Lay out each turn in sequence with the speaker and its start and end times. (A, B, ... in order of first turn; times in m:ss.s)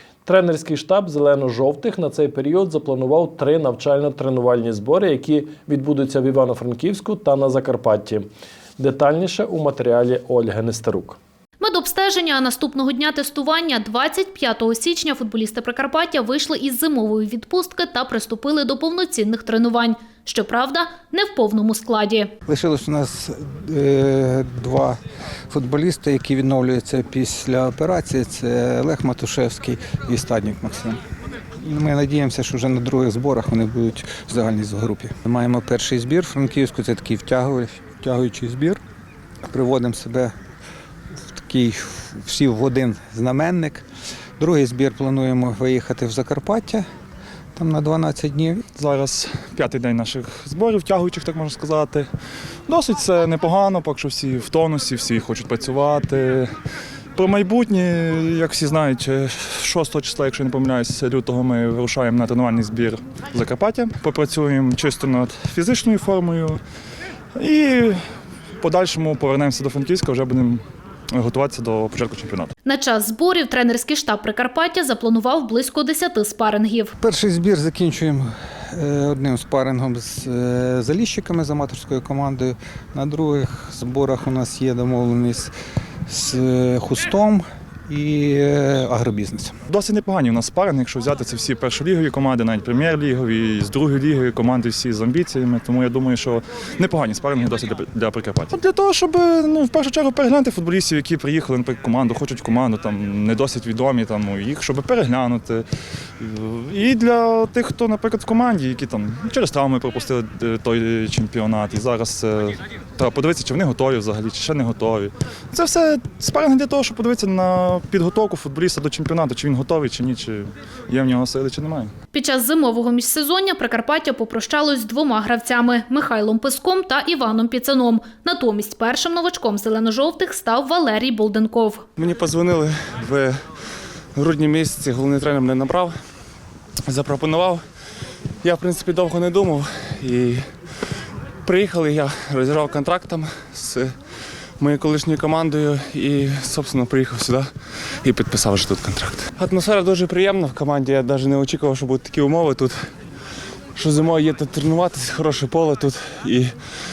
0:00.2-0:08.3 A
0:08.8-0:11.2 A
0:11.6-0:22.3 B
0:22.5-0:25.0 C
0:25.5-0:31.0 C
0:31.6-0:38.8 C
0:39.4-0:40.3 C
0:41.3-0:43.8 C
0:44.4-0:46.8 C
0:47.6-0:48.6 C
0:48.7-0:52.1 D
0:52.7-0:56.5 D
0:57.2-1:06.6 D
1:07.4-1:08.0 D
1:08.6-1:12.5 D
1:12.6-1:16.9 B
1:17.0-1:25.5 C
1:26.1-1:29.5 C
1:29.7-1:45.6 D
1:46.2-2:01.9 D
2:02.1-2:11.8 B
2:12.0-2:13.4 E
2:14.2-2:16.0 E
2:16.9-2:17.6 E
2:18.4-2:20.4 E
2:21.4-2:23.9 E
2:24.6-2:27.5 E
2:28.0-2:32.7 E
2:33.8-2:36.5 E